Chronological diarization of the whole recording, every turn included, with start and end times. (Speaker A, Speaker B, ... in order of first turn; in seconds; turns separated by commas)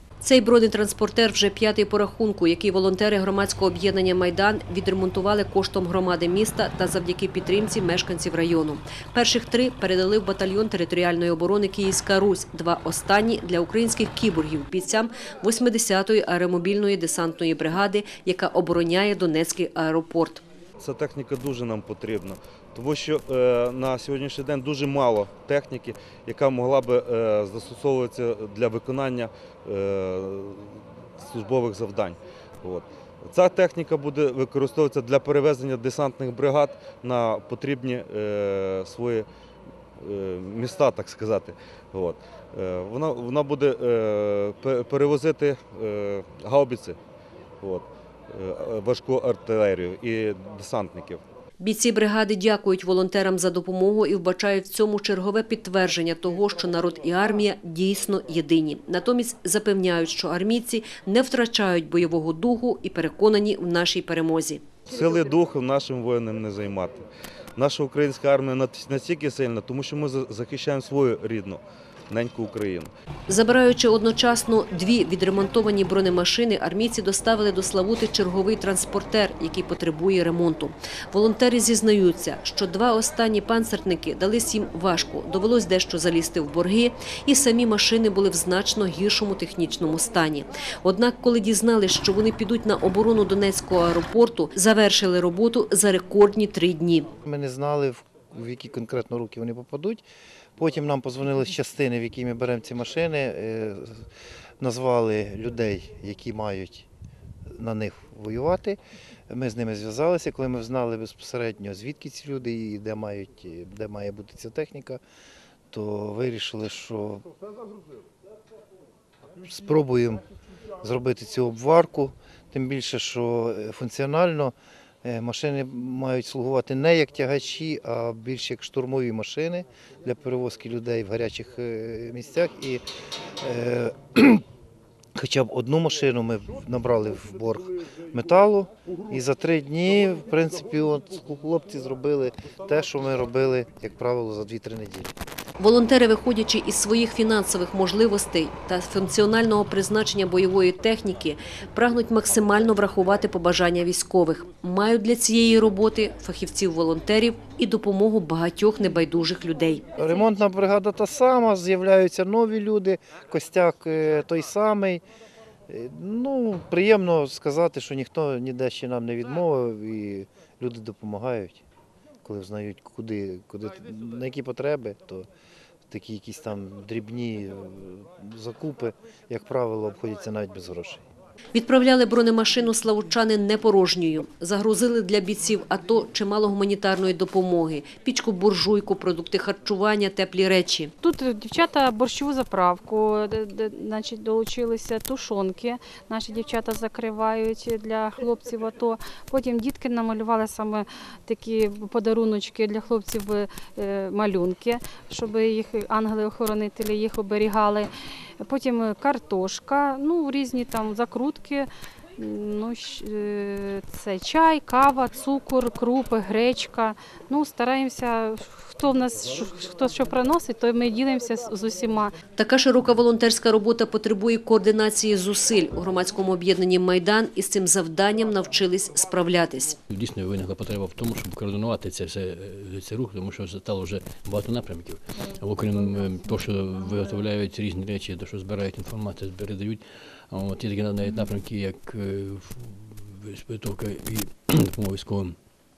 Speaker A: 0.2-20.4, Speaker B: 20.8-39.2, Speaker B: 40.0-47.0, Speaker B: 47.6-51.2, Speaker A: 51.6-64.7, Speaker B: 64.9-67.0, Speaker B: 67.6-72.9, Speaker A: 73.3-97.1, Speaker C: 97.2-100.0, Speaker C: 100.6-104.0, Speaker C: 104.6-106.9, Speaker C: 107.6-108.8, Speaker C: 109.3-115.0, Speaker C: 115.7-117.2, Speaker C: 119.4-120.2, Speaker C: 120.8-132.8, Speaker C: 133.4-134.4, Speaker C: 135.2-145.1, Speaker A: 145.6-159.8, Speaker C: 160.0-165.0, Speaker C: 165.7-171.6, Speaker C: 172.2-175.3, Speaker C: 175.9-181.0, Speaker A: 181.5-190.9, Speaker D: 191.0-207.9, Speaker D: 208.4-222.1, Speaker A: 222.4-229.8, Speaker E: 229.9-245.5